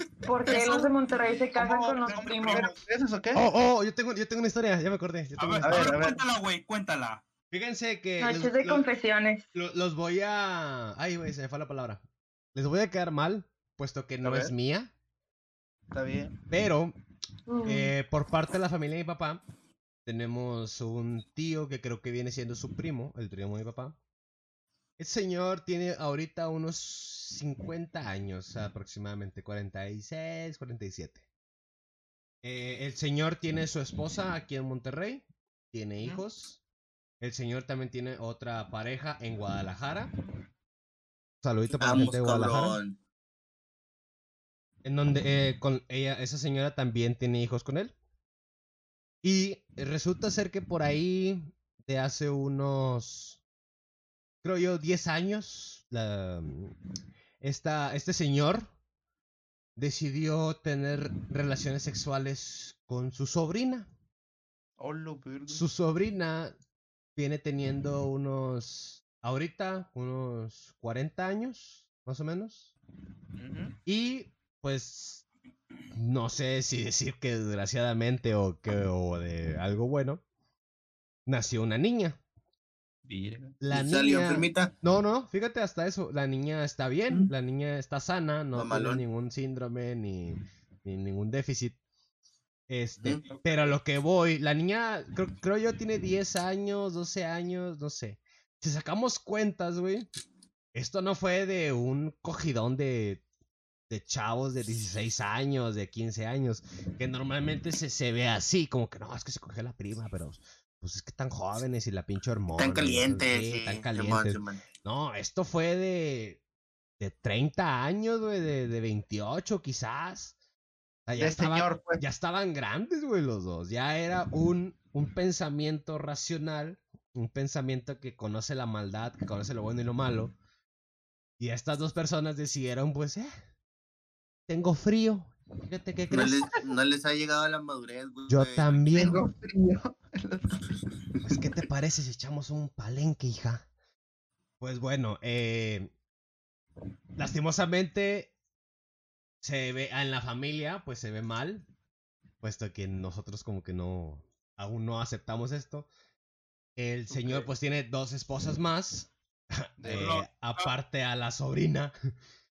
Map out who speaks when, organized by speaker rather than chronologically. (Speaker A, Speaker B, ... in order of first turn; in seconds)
Speaker A: 0.2-2.7, 8.2-9.4, 17.5-17.9
Speaker B: 0.5-3.5, 5.6-6.2, 15.9-16.4, 64.8-65.6, 73.4-73.8, 83.0-83.6, 93.3-93.7, 121.2-122.0, 138.9-140.6, 157.1-157.5, 159.8-160.1
Speaker C: 2.0-2.8, 5.4-7.2, 159.9-160.7
Speaker D: 3.3-6.0, 7.5-8.8, 9.5-12.0, 12.5-14.9, 16.5-16.9, 17.6-19.4, 20.1-23.9, 25.0-31.2, 32.4-36.6, 37.2-40.1, 41.4-42.8, 44.8-47.9, 49.2-53.4, 54.4-56.7, 57.4-58.7, 59.8-63.9, 65.5-66.5, 67.2-72.7, 73.8-75.2, 75.9-80.2, 81.2-82.2, 83.6-91.8, 92.7-100.1, 100.7-103.2, 103.9-116.4, 117.0-120.3, 121.1-130.3, 131.4-133.3, 134.5-136.4, 138.3-139.2, 141.2-143.7, 144.6-145.9, 147.2-148.3, 149.4-151.7, 152.4-155.9, 156.8-161.9
Speaker E: 41.7-43.0, 83.7-84.7, 88.5-89.0, 112.5-114.6, 136.1-139.2